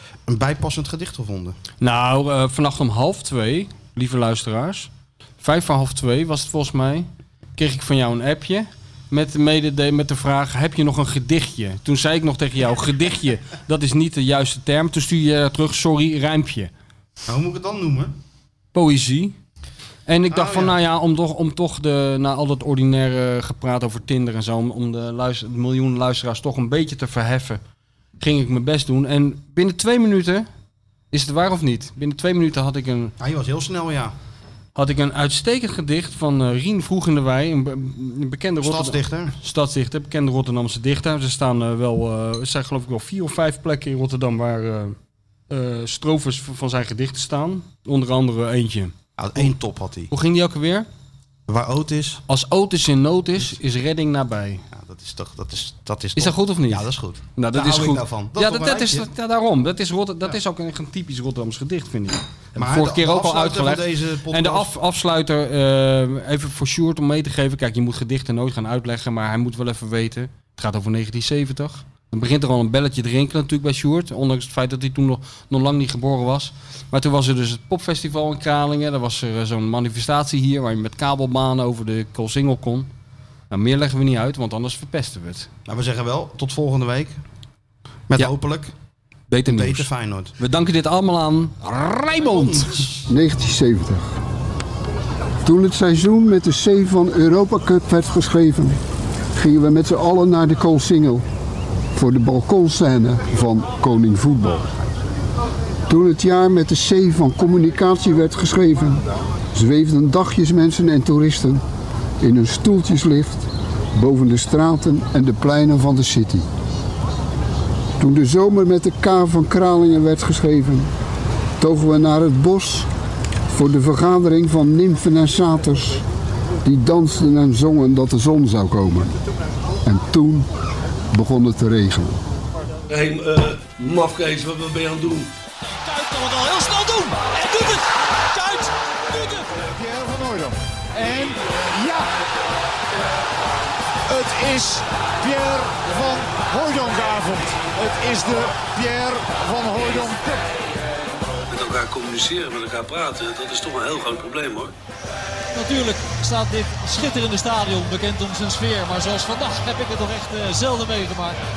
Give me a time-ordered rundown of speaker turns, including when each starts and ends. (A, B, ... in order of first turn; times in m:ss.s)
0:00.3-0:01.6 A
0:01.8-0:16.7 B
0:17.2-0:18.1 A
0:18.7-0:19.4 B
0:20.1-0:27.6 B
0:20.3-0:20.8 A
0:28.2-0:30.5 B
0:31.1-0:33.1 B
0:33.2-0:34.1 A
0:34.8-0:45.0 B
0:38.6-0:39.4 A
0:45.5-0:49.5 B
0:49.2-0:50.1 A
0:50.1-0:50.9 B
0:51.5-0:52.2 A
0:52.3-0:54.6 B
0:54.7-0:59.1 A
0:56.2-1:22.9 B
1:02.6-1:04.7 A
1:23.5-1:25.5 B
1:25.6-1:27.2 A
1:28.1-1:28.7 A
1:29.3-1:32.9 B
1:29.4-1:30.3 A
1:32.2-1:33.1 A
1:33.1-1:34.0 C
1:35.4-1:38.8 C
1:39.3-1:41.2 C
1:41.9-1:44.7 C
1:45.9-1:51.6 C
1:52.2-1:56.5 C
1:58.0-2:00.9 C
2:01.6-2:02.9 C
2:03.5-2:06.0 C
2:06.6-2:09.1 C
2:09.8-2:10.4 C
2:11.1-2:12.2 C
2:12.9-2:15.3 D
2:15.7-2:19.4 E
2:19.5-2:22.1 F
2:24.1-2:30.5 F
2:31.5-2:34.7 D
2:35.5-2:41.4 E